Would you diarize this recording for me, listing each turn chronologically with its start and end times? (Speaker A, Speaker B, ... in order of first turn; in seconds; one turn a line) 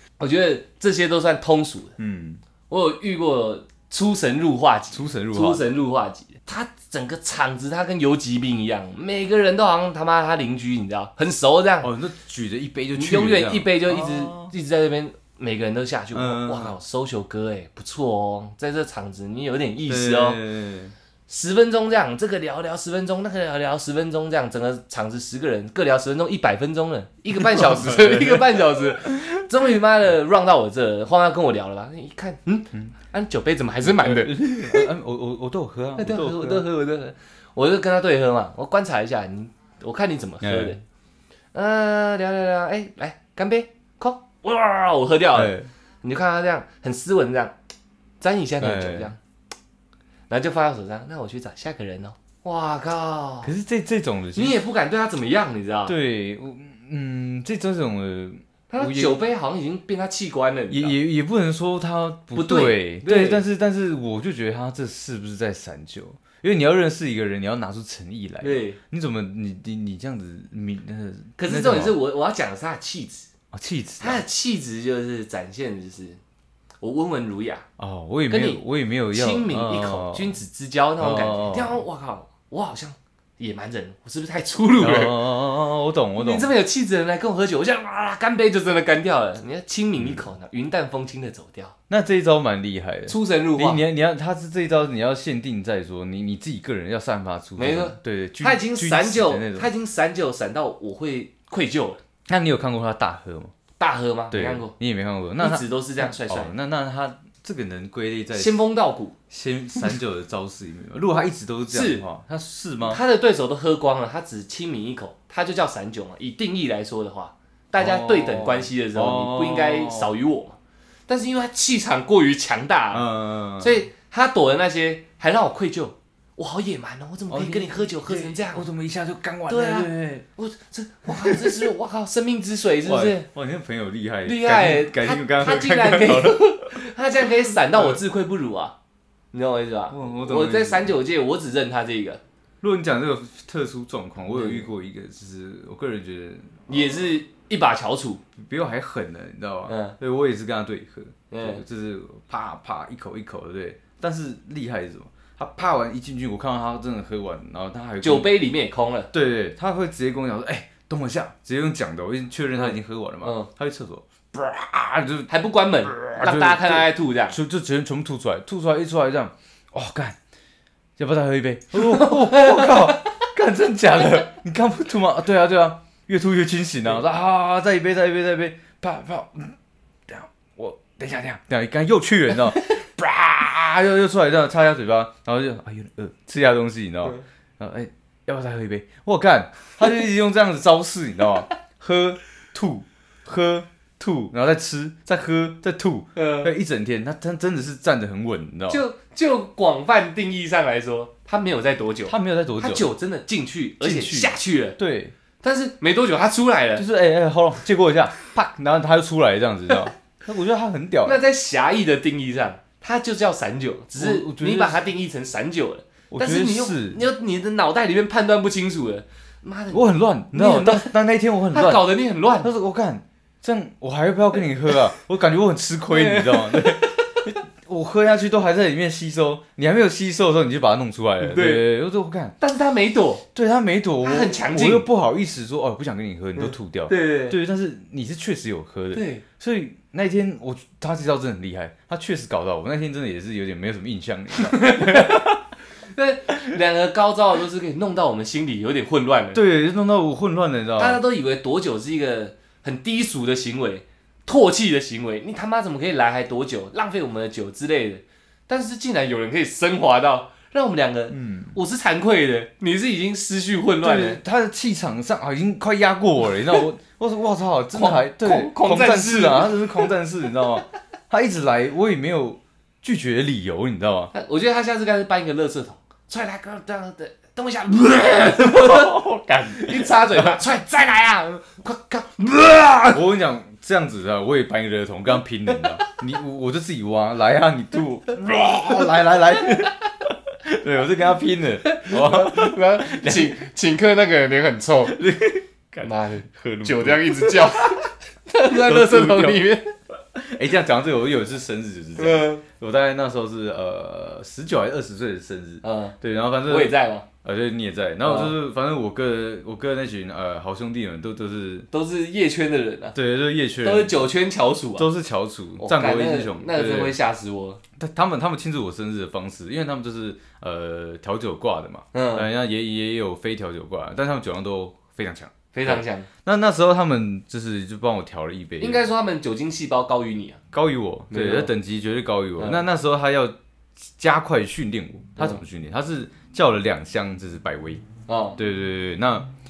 Speaker A: 0.2-1.9
Speaker B: 2.0-2.4
Speaker A: 2.7-11.9
Speaker B: 4.9-5.6
Speaker B: 11.8-14.5
Speaker A: 12.9-20.4
Speaker B: 16.1-16.7
Speaker B: 19.9-20.9
Speaker A: 21.3-34.9
Speaker B: 27.3-29.4
Speaker B: 33.8-36.7
Speaker A: 36.0-40.8
Speaker B: 40.4-40.8
Speaker A: 41.5-47.5
Speaker B: 45.3-45.7
Speaker A: 48.2-49.2
Speaker B: 48.6-49.1
Speaker A: 50.3-53.5
Speaker B: 53.4-54.6
Speaker A: 54.3-56.0
Speaker B: 55.9-59.2
Speaker A: 58.7-60.9
Speaker B: 60.7-72.0
Speaker A: 62.3-63.4
Speaker A: 68.4-68.8
Speaker A: 71.4-73.3
Speaker B: 73.5-74.2
Speaker A: 74.0-76.2
Speaker A: 76.8-77.7
Speaker B: 77.8-80.3
Speaker A: 78.3-78.6
Speaker A: 79.1-85.2
Speaker B: 81.0-81.8
Speaker B: 84.8-86.5
Speaker A: 86.2-91.7
Speaker B: 90.0-90.2
Speaker B: 91.9-99.7
Speaker A: 93.1-93.8
Speaker A: 97.6-102.0
Speaker B: 102.3-103.5
Speaker A: 103.8-104.7
Speaker B: 104.3-108.6
Speaker A: 105.4-106.5
Speaker A: 108.3-109.2
Speaker B: 109.3-113.0
Speaker A: 111.7-112.0
Speaker A: 112.9-123.1
Speaker B: 117.8-120.1
Speaker B: 122.9-123.8
Speaker A: 123.6-128.7
Speaker B: 127.3-130.2
Speaker A: 129.5-133.3
Speaker B: 131.1-131.7
Speaker B: 132.8-136.8
Speaker A: 134.2-138.7
Speaker B: 137.5-138.0
Speaker A: 139.3-142.2
Speaker B: 139.9-140.9
Speaker B: 142.6-146.9
Speaker A: 144.3-144.7
Speaker A: 146.7-148.2
Speaker B: 148.4-158.3
Speaker A: 149.7-149.9
Speaker A: 151.3-151.6
Speaker A: 158.0-159.1
Speaker B: 159.1-165.3
Speaker A: 162.6-163.5
Speaker A: 165.3-167.4
Speaker B: 165.8-170.2
Speaker B: 171.0-179.6
Speaker A: 171.8-173.0
Speaker B: 180.1-198.8
Speaker A: 196.2-196.5
Speaker A: 198.7-204.8
Speaker B: 202.1-202.9
Speaker B: 203.8-205.1
Speaker A: 205.4-206.8
Speaker B: 206.8-211.2
Speaker A: 211.0-220.9
Speaker B: 213.9-214.8
Speaker B: 216.1-217.0
Speaker B: 219.7-221.9
Speaker A: 221.5-222.5
Speaker B: 222.4-232.3
Speaker A: 225.9-227.2
Speaker A: 231.2-231.6
Speaker A: 232.4-233.2
Speaker B: 233.3-245.4
Speaker A: 234.0-234.9
Speaker A: 236.4-237.4
Speaker A: 238.9-239.2
Speaker A: 244.4-245.3
Speaker A: 245.9-249.4
Speaker B: 249.3-251.0
Speaker A: 250.8-264.2
Speaker B: 261.1-261.6
Speaker B: 263.8-274.1
Speaker A: 267.7-269.7
Speaker A: 274.1-279.0
Speaker B: 278.1-280.4
Speaker A: 279.5-283.0
Speaker B: 282.9-293.4
Speaker A: 291.6-295.0
Speaker B: 294.9-297.9
Speaker A: 295.8-299.7
Speaker B: 298.4-299.4
Speaker B: 300.1-311.7
Speaker A: 302.0-302.4
Speaker A: 305.6-307.1
Speaker A: 308.0-308.3
Speaker A: 311.7-312.9
Speaker B: 312.9-314.1
Speaker A: 313.6-314.9
Speaker B: 314.8-316.9
Speaker A: 315.6-317.6
Speaker B: 317.8-328.8
Speaker A: 321.9-322.3
Speaker A: 325.5-326.1
Speaker A: 328.6-330.4
Speaker B: 330.5-333.3
Speaker A: 331.1-331.5
Speaker B: 334.0-337.8
Speaker A: 338.1-338.4
Speaker B: 338.4-339.3